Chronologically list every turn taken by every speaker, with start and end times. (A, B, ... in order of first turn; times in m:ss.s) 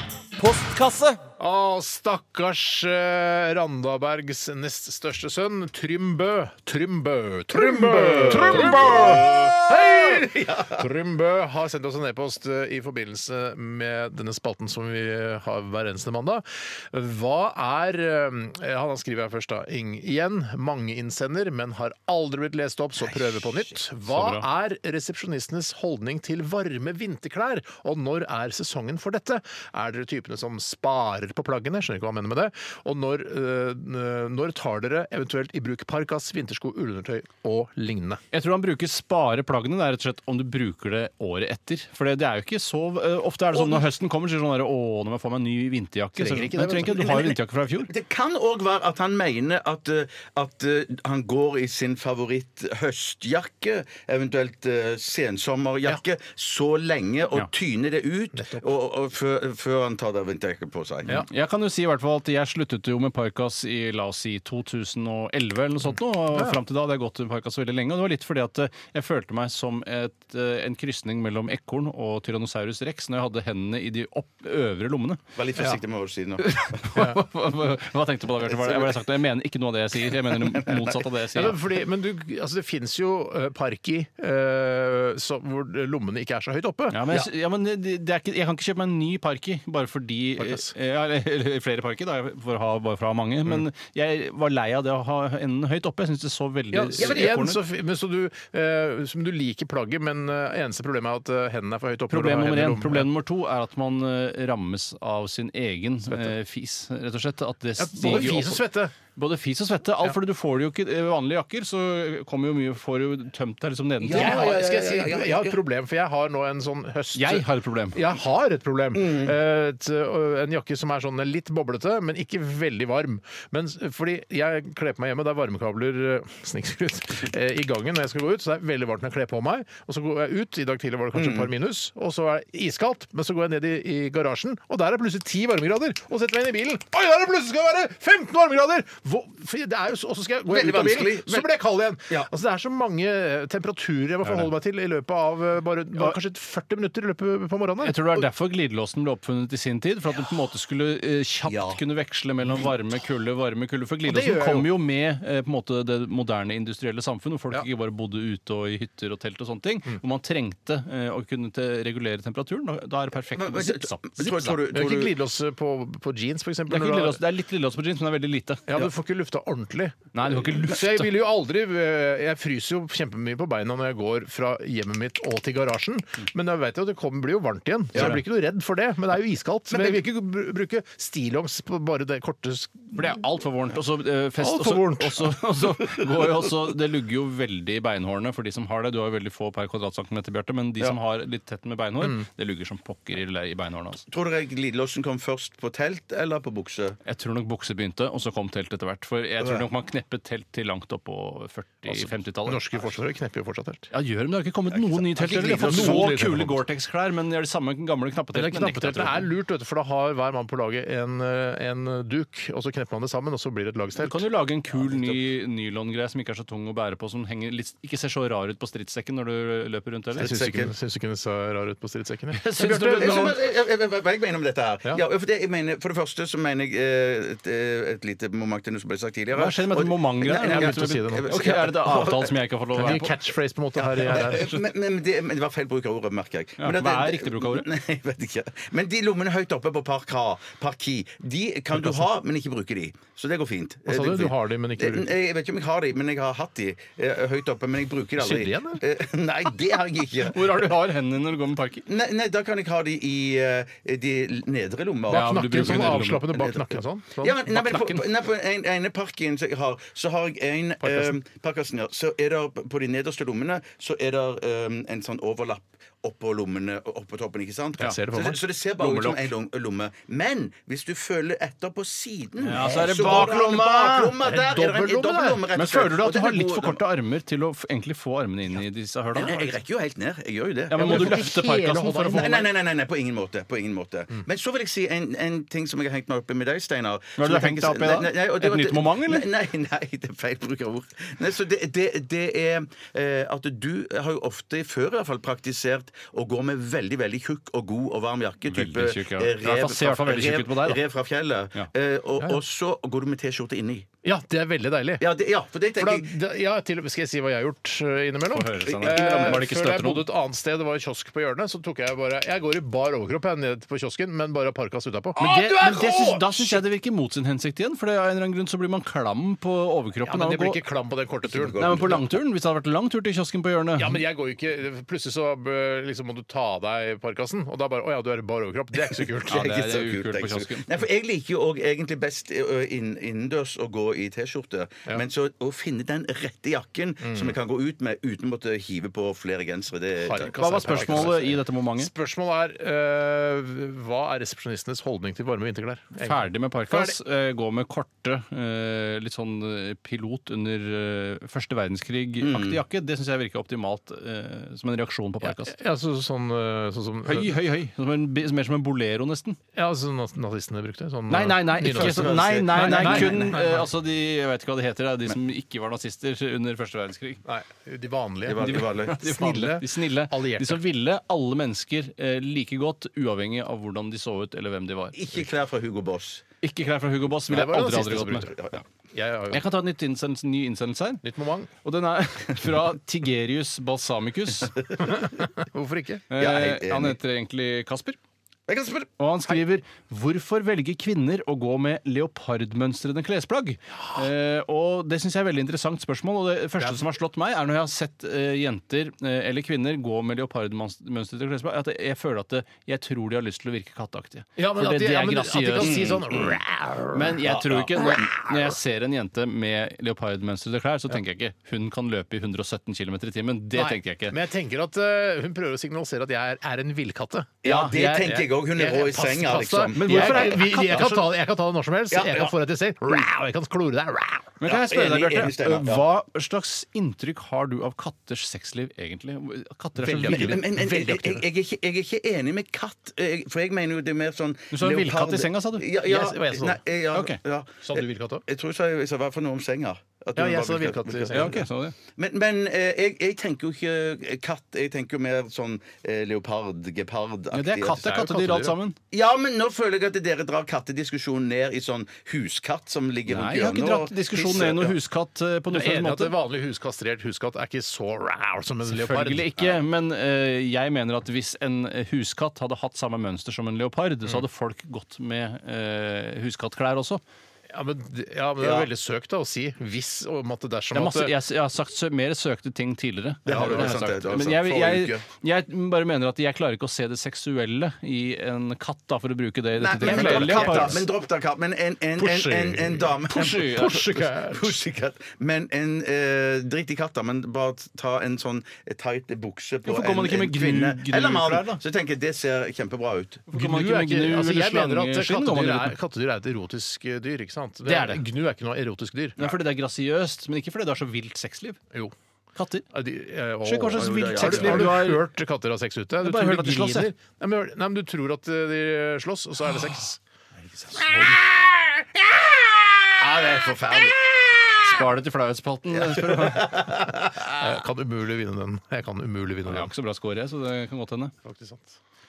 0:00.4-0:01.2 A
0:01.4-0:38.2 B
0:07.5-0:10.8 C
0:08.3-0:09.2 A
0:23.1-0:23.6 C
0:24.1-0:24.4 A
0:38.3-0:47.9 A
0:43.5-0:43.9 C
0:46.2-0:47.1 B
0:46.8-1:01.2 C
0:58.4-0:58.7 B
1:01.1-1:15.2 A
1:06.3-1:06.6 B
1:15.4-1:16.8 C
1:16.4-1:21.6 A
1:17.0-1:17.2 B
1:18.5-1:19.0 C
1:20.1-1:21.1 C
1:21.3-1:27.1 B
1:26.9-1:37.6 A
1:30.4-1:30.7 B
1:36.7-1:43.1 B
1:37.0-1:37.3 C
1:42.1-1:48.6 A
1:46.1-1:46.4 B
1:47.8-1:48.9 B
1:49.1-1:54.5 A
1:54.0-1:55.6 C
1:54.1-2:28.0 B
1:57.1-1:58.0 A
1:58.9-1:59.3 C
2:11.1-2:11.5 C
2:20.5-2:21.5 C
2:24.2-2:24.5 A
2:27.8-2:44.6 A
2:31.5-2:31.8 C
2:34.0-2:34.7 B
2:43.3-2:45.1 C
2:44.7-2:47.2 B
2:46.7-2:48.7 A
2:48.7-3:03.2 B
2:50.1-2:51.1 A
2:58.0-2:58.2 A
2:59.7-3:00.0 C
3:02.9-3:14.0 A
3:04.4-3:05.4 B
3:14.1-3:17.0 C
3:17.0-3:22.6 A
3:19.4-3:19.7 C
3:21.9-3:23.9 B
3:23.9-3:29.3 A
3:24.7-3:26.2 C
3:25.3-3:26.6 B
3:28.3-3:34.2 B
3:34.0-3:40.3 A
3:40.2-3:40.7 C
3:40.2-3:43.4 B
3:42.3-3:43.4 A
3:42.9-3:52.9 C
3:49.3-3:53.1 A
3:50.4-3:51.3 B
3:52.7-3:54.6 B
3:53.7-4:10.7 C
3:54.3-3:54.6 A
3:56.6-3:57.7 A
4:01.7-4:02.0 B
4:03.9-4:05.2 B
4:08.2-4:08.8 B
4:10.2-4:11.9 A
4:11.9-4:36.8 C
4:15.1-4:17.5 B
4:15.1-4:16.3 A
4:17.5-4:18.0 A
4:20.8-4:21.2 B
4:27.8-4:28.4 B
4:28.8-4:29.3 A
4:32.4-4:34.1 A
4:32.5-4:35.4 B
4:35.5-4:39.6 A
4:39.1-4:41.3 C
4:40.7-4:42.4 A
4:40.8-4:42.4 B
4:42.1-5:03.9 C
4:47.2-4:49.3 A
4:58.5-5:00.8 A
5:04.0-5:05.1 B
5:05.0-5:06.1 C
5:05.8-5:16.6 B
5:08.3-5:10.1 A
5:08.7-5:09.4 C
5:15.2-5:20.6 A
5:20.0-5:22.0 B
5:21.2-5:22.1 C
5:21.6-5:24.0 A
5:23.8-5:29.6 B
5:28.8-5:41.1 C
5:29.3-5:30.7 A
5:37.0-5:37.4 B
5:40.0-5:47.0 B
5:40.4-5:41.9 A
5:46.0-5:55.6 A
5:52.2-5:52.6 C
5:55.2-5:57.4 B
5:57.0-5:59.4 A
5:59.6-6:03.7 B
6:01.1-6:07.2 A
6:01.6-6:03.4 C
6:07.2-6:10.6 B
6:08.3-6:09.0 C
6:08.4-6:15.0 A
6:14.9-6:16.2 C
6:16.4-6:18.3 A
6:17.3-6:18.4 B
6:18.3-6:18.6 C
6:18.9-6:19.4 B
6:19.3-6:21.0 A
6:21.0-6:21.5 B
6:21.6-6:24.6 A
6:24.5-6:24.9 C
6:24.8-6:26.0 B
6:26.1-6:28.0 A
6:26.2-6:27.0 C
6:28.5-6:28.9 C
6:29.0-6:45.7 A
6:36.6-6:36.8 B
6:44.4-6:47.2 B
6:45.6-6:46.4 C
6:46.9-6:54.2 A
6:47.2-6:48.1 C
6:47.8-6:48.4 B
6:53.5-7:04.3 B
6:57.4-7:00.9 C
6:57.4-6:58.1 A
6:59.8-7:01.0 A
7:01.9-7:02.4 C
7:04.4-7:10.4 A
7:04.4-7:05.9 C
7:09.8-7:11.2 B
7:10.0-7:21.4 C
7:14.5-7:15.6 A
7:15.8-7:16.6 B
7:16.9-7:17.2 A
7:17.6-7:18.2 B
7:20.2-7:21.4 B
7:21.1-7:21.8 A
7:22.0-7:28.1 C
7:27.3-7:28.8 A
7:27.8-7:28.6 B
7:28.9-7:34.8 C
7:33.1-7:36.1 A
7:35.5-7:39.3 B
7:38.7-7:47.0 A
7:47.5-7:51.2 B
7:48.4-7:48.7 C
7:50.7-8:00.8 A
7:53.3-7:55.1 C
7:53.3-7:53.8 B
7:59.6-8:13.2 C
7:59.8-8:00.8 B
8:02.0-8:04.6 B
8:03.1-8:03.9 A
8:09.6-8:11.6 A
8:13.3-8:15.8 A
8:13.3-8:19.3 B
8:17.6-8:18.0 A
8:19.2-8:21.6 A
8:22.4-8:22.7 A
8:22.7-8:30.0 B
8:23.4-8:25.1 A
8:23.8-8:24.8 C
8:26.0-8:26.9 A
8:30.7-8:31.2 A
8:30.7-8:31.4 B
8:33.0-8:34.6 C
8:34.6-8:36.7 A
8:35.7-8:37.4 C
8:37.3-8:39.7 B
8:39.5-8:41.1 A
8:41.2-8:41.8 B